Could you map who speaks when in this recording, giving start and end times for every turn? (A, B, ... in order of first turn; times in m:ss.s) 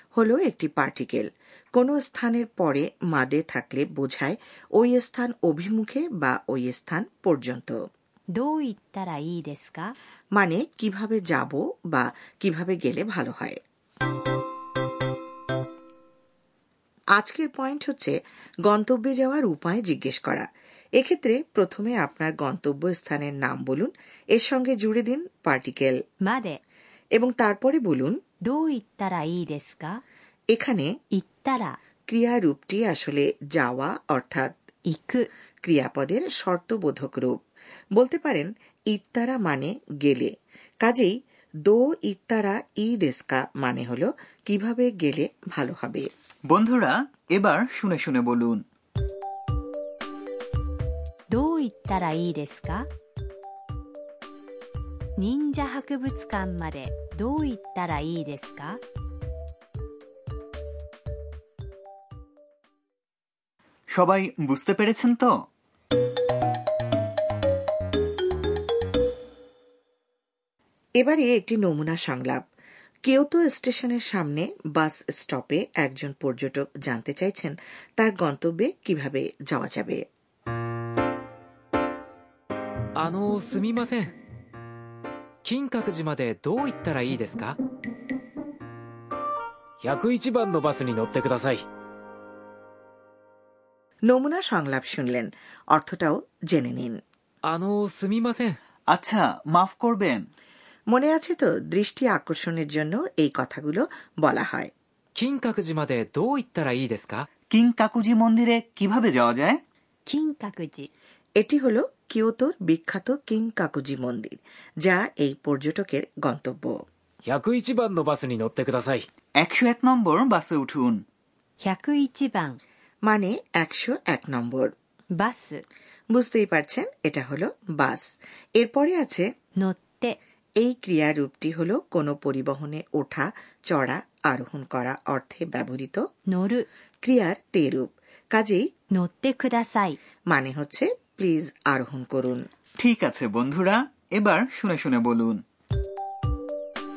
0:00.2-0:07.8 A
0:08.4-0:10.0 B
0:10.4-0:13.6 A
0:17.2-0:26.0 A
0:26.2-0:26.6 B
0:27.2-0:28.2 A
0:28.4-0:30.0 B
0:30.5-0:30.9 A
0:31.1-0:31.8 B
0:32.1-0:34.5 A
0:34.9-0:35.3 B
0:35.6-0:37.4 A
0:38.0-0:46.1 A
0:46.5-0:48.6 C
0:51.3-0:52.9 B
0:55.2-0:58.8 B
1:03.9-1:05.3 C
1:11.0-1:12.4 A
1:13.0-1:20.1 A
1:23.0-1:24.2 D
1:25.4-1:27.6 D
1:29.8-1:31.6 D
1:34.1-1:37.0 A
1:37.5-1:38.6 D
1:38.9-1:40.2 C
1:40.9-1:44.7 A
1:45.2-1:47.3 D
1:47.5-1:49.6 C
1:50.1-1:50.9 B
1:51.4-1:56.8 A
1:57.2-1:59.1 D
1:59.4-2:01.0 C
2:01.6-2:02.6 B
2:03.0-2:04.7 A
2:05.2-2:05.6 B
2:06.1-2:09.3 A
2:09.6-2:10.2 B
2:10.6-2:16.1 A
2:16.3-2:16.7 B
2:17.0-2:18.7 A
2:18.9-2:20.0 B
2:20.3-2:22.5 A
2:22.8-2:25.4 C